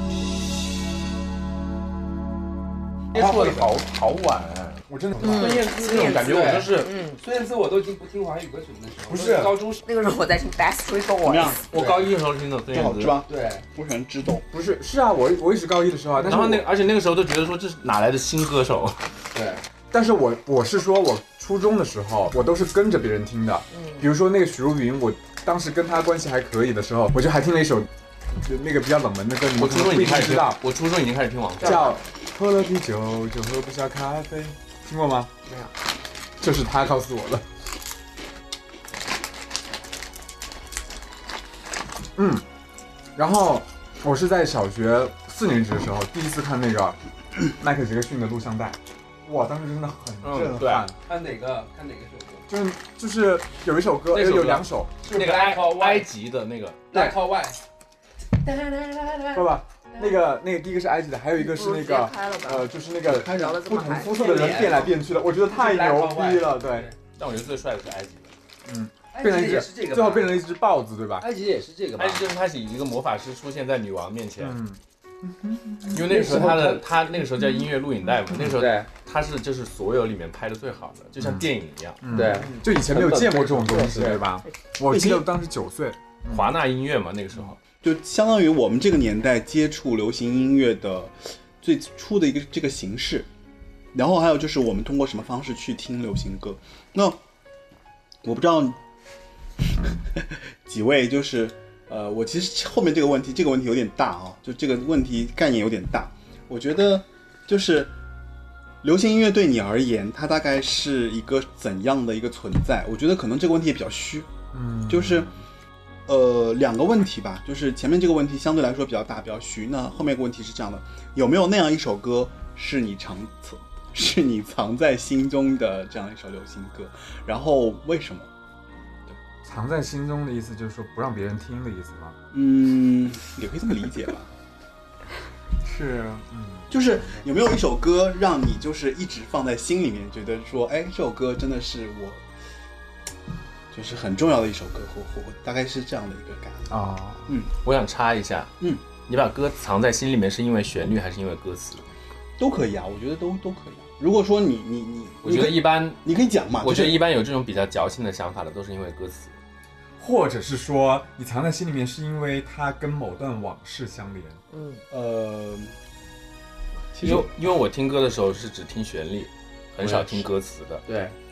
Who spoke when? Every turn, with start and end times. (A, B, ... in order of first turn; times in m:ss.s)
0:03.1-0:06.9 A
0:03.3-0:03.7 B
0:04.9-0:05.6 B
0:05.2-0:07.2 C
0:05.3-0:09.8 D
0:09.0-0:09.6 B
0:09.8-0:11.6 C
0:11.2-0:11.6 E
0:11.7-0:13.2 A
0:11.7-0:12.1 D
0:12.7-0:14.5 E
0:13.3-0:13.6 D
0:14.5-0:16.6 B
0:16.2-0:19.0 A
0:19.3-0:19.6 D
0:19.9-0:30.6 B
0:23.7-0:24.1 C
0:29.6-0:31.9 A
0:31.6-0:35.3 B
0:31.6-0:31.9 C
0:36.4-0:37.4 B
0:42.2-0:42.4 B
0:43.1-0:51.0 B
0:50.2-0:50.9 A
0:51.0-0:52.4 D
0:52.5-0:55.0 B
0:54.1-0:57.1 A
0:55.1-0:56.0 D
0:56.9-0:57.6 D
0:58.6-0:59.4 D
0:59.3-1:06.9 B
1:01.4-1:04.1 C
1:04.2-1:04.8 D
1:05.5-1:06.9 D
1:07.2-1:08.3 A
1:08.6-1:11.3 B
1:09.2-1:10.4 D
1:11.2-1:12.3 D
1:12.0-1:14.6 A
1:14.4-1:16.3 B
1:15.9-1:22.3 A
1:16.0-1:16.9 D
1:18.5-1:18.9 D
1:21.2-1:21.5 B
1:22.0-1:26.6 B
1:22.1-1:24.2 D
1:26.3-1:27.6 A
1:27.8-1:33.3 E
1:33.9-1:37.2 E
1:38.2-1:38.8 E
1:39.8-1:47.9 E
1:48.8-1:54.3 E
1:54.5-1:55.4 B
1:54.9-1:55.3 E
1:56.1-2:08.3 E
2:09.4-2:12.2 B
2:12.3-2:14.3 E
2:15.6-2:17.3 B
2:16.7-2:22.2 E
2:23.7-2:26.8 E
2:26.7-2:27.3 B
2:27.6-2:31.8 A
2:32.4-2:37.1 E
2:35.2-2:36.0 A
2:36.6-2:39.3 A
2:40.0-2:44.4 B
2:44.5-2:44.8 C
2:44.9-2:45.7 E
2:46.9-2:47.3 E
2:47.0-2:50.8 A
2:49.8-2:50.3 D
2:50.9-2:51.1 D